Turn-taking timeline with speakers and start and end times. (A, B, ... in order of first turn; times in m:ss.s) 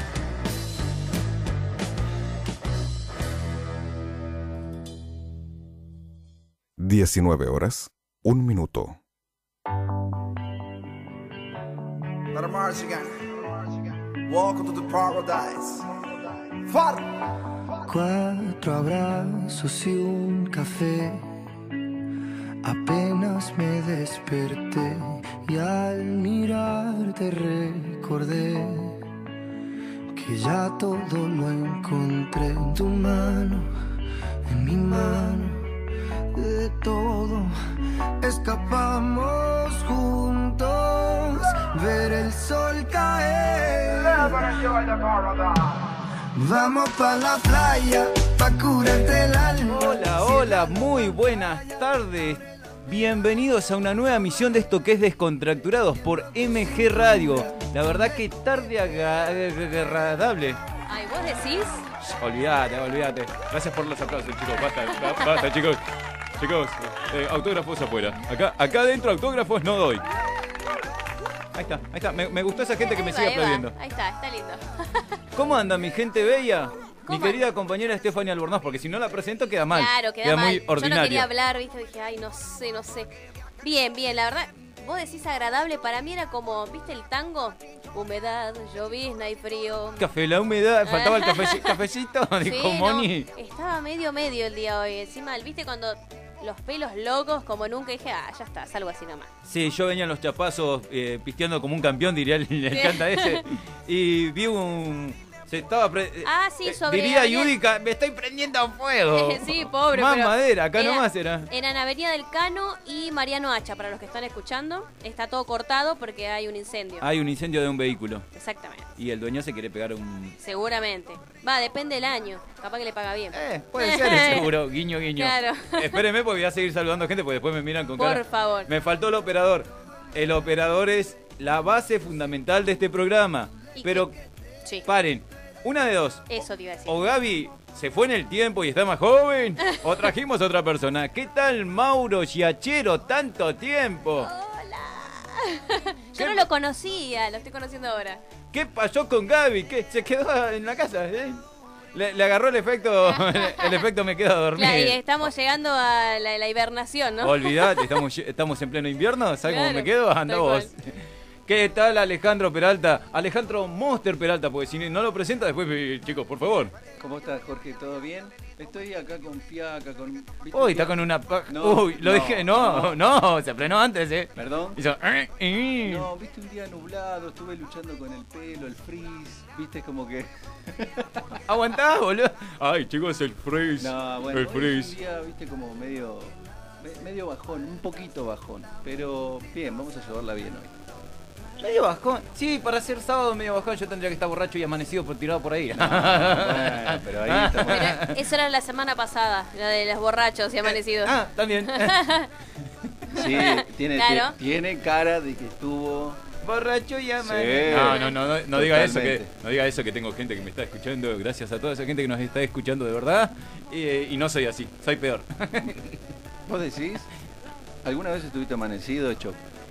0:06.8-0:09.0 A
0:12.3-0:13.1 B
0:14.3-0:15.8 B
0:16.7-0:17.0 B
0:17.8-0:21.3 C
0:22.6-0:29.0 C
0:30.1-0:33.7 C
0:34.5-0:35.6 C
0:36.3-0:37.5 C
0:38.2-0:44.6 C
0:46.3-0:50.6 C
0:49.7-1:00.6 D
1:00.9-1:01.8 E
1:02.1-1:05.8 D
1:06.4-1:10.0 D
1:11.5-1:13.7 D
1:12.8-1:15.1 E
1:15.4-1:21.3 D
1:17.1-1:17.4 E
1:19.7-1:23.1 E
1:23.6-1:30.1 E
1:30.0-1:33.3 D
1:30.9-1:31.8 E
1:32.5-1:39.3 E
1:39.4-1:51.5 D
1:42.7-1:43.4 E
1:46.2-1:47.5 E
1:49.1-1:57.1 E
1:57.0-1:58.3 D
1:58.3-1:58.9 E
1:59.0-2:00.4 D
2:00.4-2:04.5 E
2:03.3-2:14.2 D
2:05.2-2:06.0 E
2:08.0-2:08.7 E
2:13.8-2:14.1 E
2:14.8-2:24.3 D
2:16.3-2:17.0 E
2:24.2-2:28.2 E
2:26.2-2:26.5 D
2:28.5-2:31.4 D
2:31.9-2:35.3 D
2:33.1-2:33.8 E
2:34.6-2:37.8 E
2:37.2-2:40.9 D
2:39.5-2:40.7 E
2:41.5-2:46.7 D
2:47.0-2:50.9 F
2:50.5-2:56.1 D
2:51.5-2:53.0 F
2:54.4-2:54.8 F
2:55.8-3:01.4 F
3:01.5-3:05.0 D
3:03.8-3:10.8 F
3:11.6-3:18.1 D
3:15.8-3:18.0 F
3:17.7-3:21.2 E
3:20.7-3:22.0 D
3:21.7-3:22.3 E
3:23.1-3:26.2 F
3:23.4-3:24.3 E
3:26.4-3:35.9 D
3:27.2-3:29.3 F
3:36.5-3:37.1 F
3:37.8-3:39.4 F